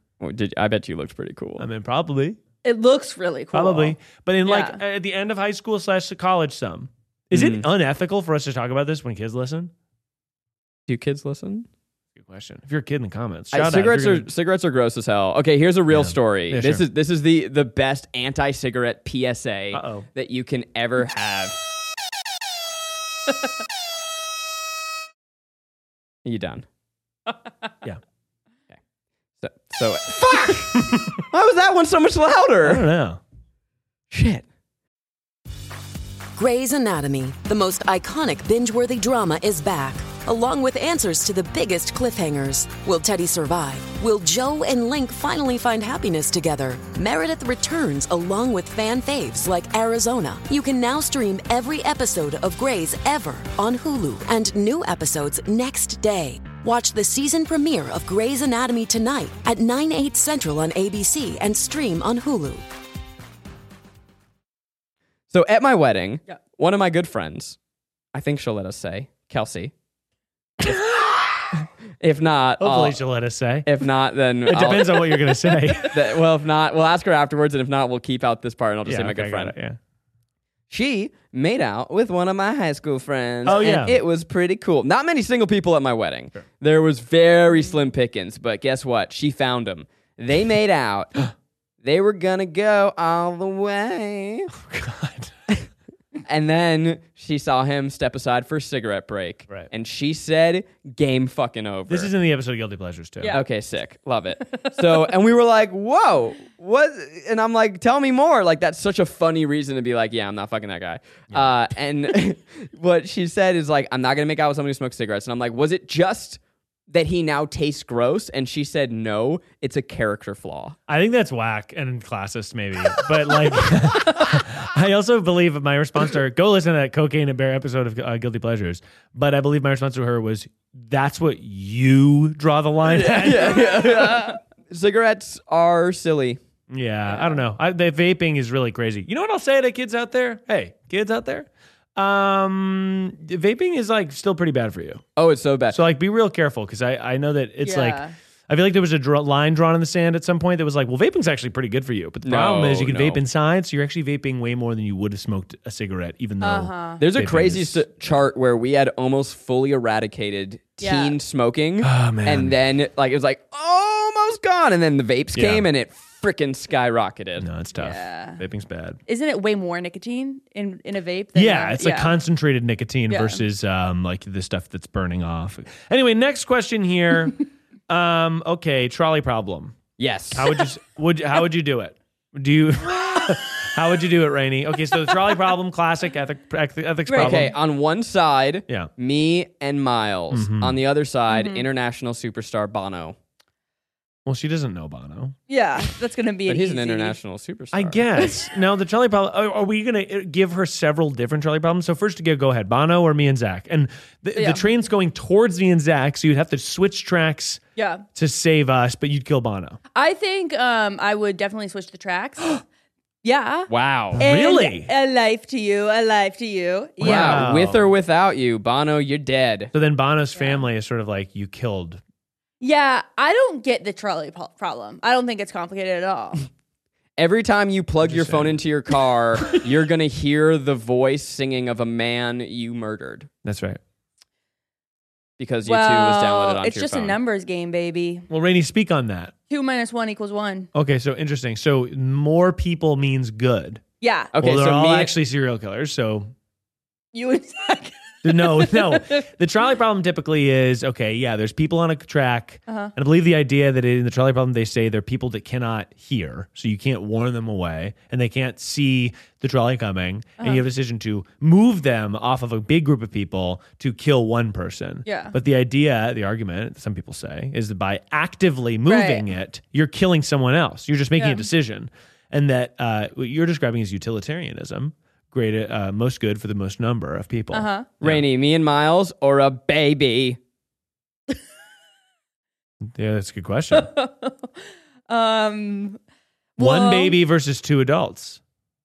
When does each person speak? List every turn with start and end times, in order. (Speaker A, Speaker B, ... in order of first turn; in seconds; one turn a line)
Speaker A: 0.2-1.7
Speaker B: 1.6-2.4
Speaker C: 2.6-4.8
Speaker B: 3.5-9.7
Speaker A: 7.3-7.7
Speaker A: 10.9-11.7
Speaker B: 12.2-14.3
Speaker A: 13.5-21.6
Speaker B: 15.9-16.9
Speaker B: 19.7-20.1
Speaker A: 26.2-26.6
Speaker A: 29.4-32.9
Speaker B: 30.8-31.2
Speaker B: 32.6-33.2
Speaker A: 34.1-34.5
Speaker D: 36.4-62.6
Speaker A: 65.3-67.6
Speaker A: 68.1-69.7
Speaker A: 72.0-73.0
Speaker B: 72.6-73.7
Speaker A: 73.7-79.5
Speaker B: 74.5-76.1
Speaker B: 78.9-79.8
Speaker A: 80.7-94.5
Speaker B: 83.5-84.0
Speaker B: 94.5-95.4
Speaker A: 96.3-102.1
Speaker B: 101.9-103.3
Speaker A: 103.3-120.8
Speaker B: 120.9-134.1
Speaker A: 132.9-136.4
Speaker B: 136.7-145.0
Speaker A: 145.2-145.8
Speaker B: 145.7-157.8
Speaker C: 147.6-148.1
Speaker A: 152.2-153.2
Speaker C: 156.4-157.0
Speaker A: 157.0-167.5
Speaker C: 160.8-161.2
Speaker B: 161.8-162.6
Speaker B: 165.3-165.7
Speaker B: 167.4-169.0
Speaker C: 167.8-168.4
Speaker C: 169.1-172.2
Speaker B: 171.3-179.8
Speaker C: 173.1-173.4
Speaker A: 180.0-180.6
Speaker B: 180.3-187.6
Speaker C: 187.1-187.5
Speaker A: 187.2-193.2
Speaker B: 190.3-190.8
Speaker C: 191.3-191.6
Speaker B: 194.3-195.3
Speaker C: 195.5-197.2
Speaker A: 196.5-198.1
Speaker B: 197.7-207.6
Speaker C: 204.4-204.6
Speaker C: 207.8-208.1
Speaker B: 208.2-209.8
Speaker C: 209.9-212.6
Speaker C: 213.2-217.5
Speaker A: 213.7-214.2
Speaker B: 214.1-214.9
Speaker B: 217.0-217.9
Speaker A: 217.0-219.7
Speaker B: 219.7-222.0
Speaker C: 220.4-220.6
Speaker C: 222.6-226.5
Speaker A: 227.2-233.3
Speaker B: 228.1-228.6
Speaker B: 233.4-233.8
Speaker A: 235.4-237.2
Speaker C: 235.7-238.3
Speaker B: 238.3-239.3
Speaker C: 239.5-240.7
Speaker B: 240.7-243.8
Speaker C: 244.0-244.3
Speaker A: 244.3-245.1
Speaker B: 244.4-246.3
Speaker C: 247.1-249.3
Speaker B: 248.2-278.2
Speaker C: 252.7-252.9
Speaker C: 265.1-265.4
Speaker C: 268.9-269.3
Speaker C: 271.2-271.5
Speaker C: 277.5-277.9
Speaker A: 278.0-280.4
Speaker B: 282.8-283.9
Speaker C: 283.7-284.6
Speaker C: 285.1-286.0
Speaker C: 286.6-287.2
Speaker B: 286.6-288.4